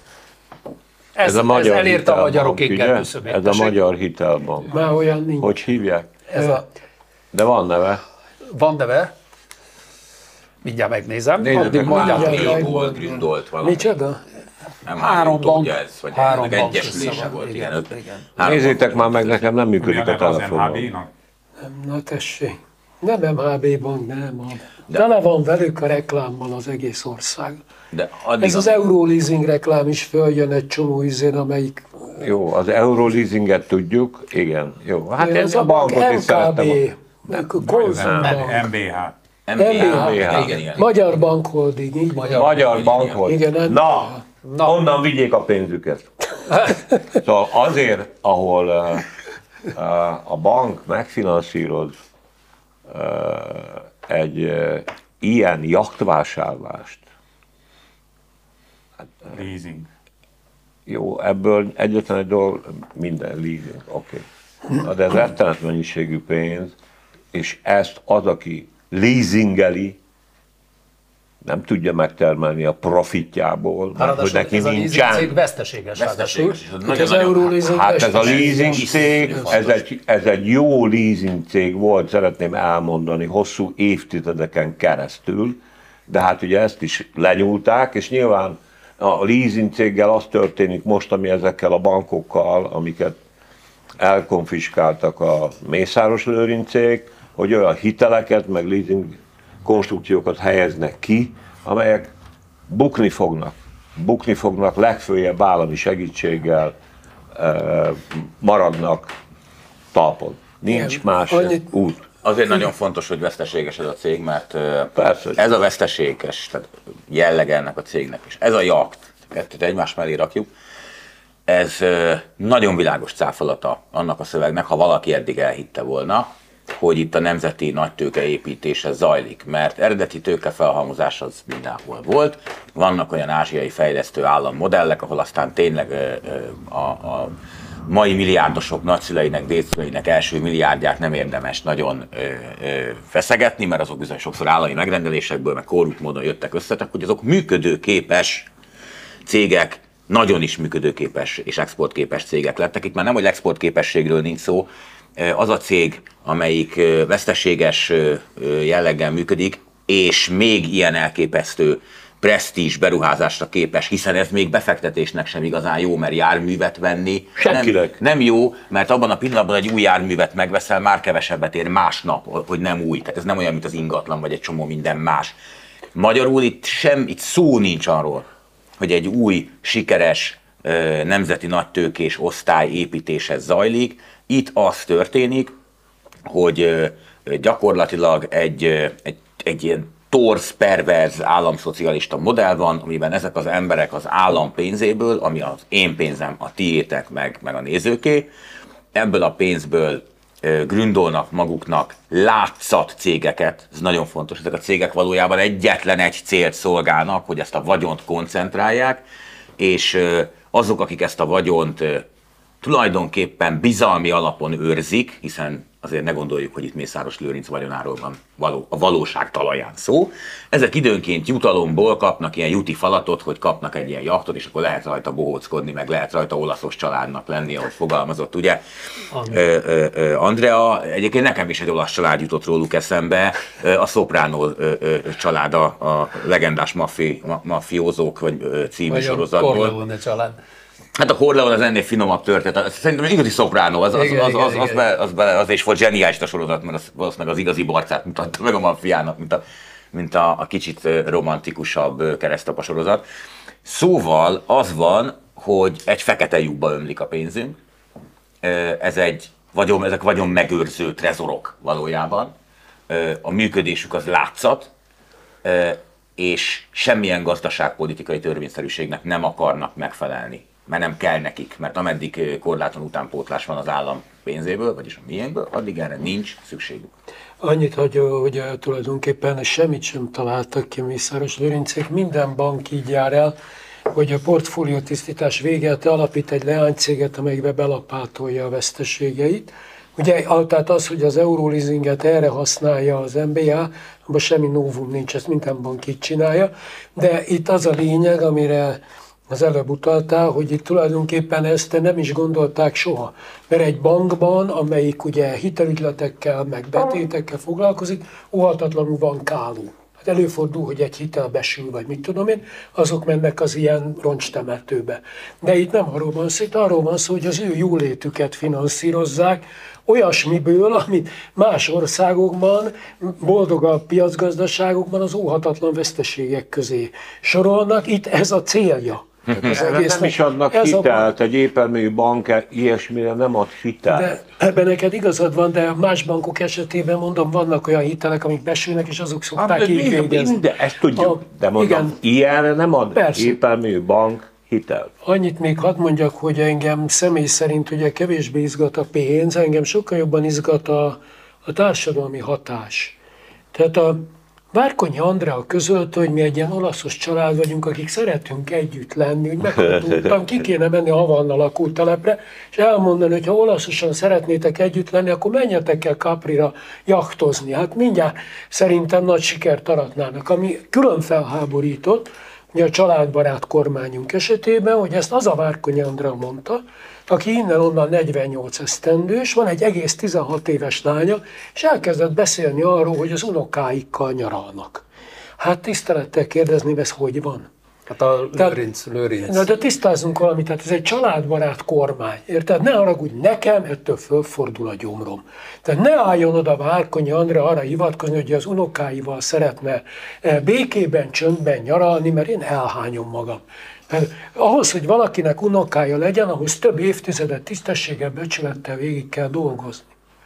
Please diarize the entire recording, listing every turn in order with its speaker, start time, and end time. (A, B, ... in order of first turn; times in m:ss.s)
0:01.2-0:03.8 A
0:01.2-0:04.7 B
0:04.7-0:05.6 C
0:05.4-0:06.1 B
0:06.3-0:06.6 A
0:07.3-0:08.0 B
0:08.5-0:09.1 A
0:10.6-0:12.8 A
0:11.4-0:13.9 D
0:11.5-0:14.2 C
0:14.8-0:19.5 D
0:14.9-0:18.3 A
0:18.4-0:20.9 B
0:19.8-0:21.1 E
0:21.6-0:27.6 C
0:27.9-0:28.7 D
0:28.4-0:32.1 C
0:32.2-0:38.3 B
0:35.2-0:38.7 C
0:37.6-0:39.1 E
0:39.5-0:40.8 D
0:39.6-0:44.2 C
0:39.9-0:40.4 B
0:40.1-0:40.8 A
0:42.2-0:42.5 A
0:42.3-0:46.1 B
0:44.4-0:44.7 A
0:47.2-0:49.1 B
0:49.7-0:51.9 B
0:52.9-0:57.0 B
0:59.3-0:59.9 E
1:00.9-1:04.2 B
1:04.8-1:06.7 B
1:07.3-1:10.0 B
1:11.4-1:15.3 B
1:14.0-1:16.6 A
1:16.0-1:19.8 D
1:16.8-1:19.5 C
1:17.7-1:25.6 B
1:26.1-1:33.2 B
1:34.0-1:42.1 B
1:42.7-1:46.7 B
1:47.3-1:49.1 B
1:49.9-1:52.0 B
1:50.7-1:51.6 C
1:52.2-2:00.5 D
1:54.9-1:55.4 B
2:01.5-2:17.3 D
2:17.8-2:28.5 D
2:29.2-2:55.4 D
2:47.4-2:48.0 B
2:55.9-2:58.3 D
2:58.8-3:05.5 D
3:06.2-3:18.3 D
3:18.9-3:29.0 D
3:29.6-3:32.0 D
3:32.6-3:48.6 D
3:49.1-3:49.4 A
3:49.2-3:59.8 D
3:58.9-4:00.4 A
4:01.0-4:09.4 D
4:03.9-4:04.8 A
4:09.9-4:13.0 D
4:13.6-4:17.6 D
4:18.4-4:22.3 D
4:22.9-4:24.7 D
4:25.4-4:36.9 D
4:37.4-4:43.3 C
4:43.9-5:31.1 C
5:29.3-5:34.2 B
5:33.9-5:42.0 C
5:39.4-5:44.9 B
5:42.9-5:43.4 C
5:45.0-5:53.0 C
5:53.5-6:24.8 C
6:25.4-6:27.5 C
6:27.9-6:29.5 A
6:29.2-6:49.8 C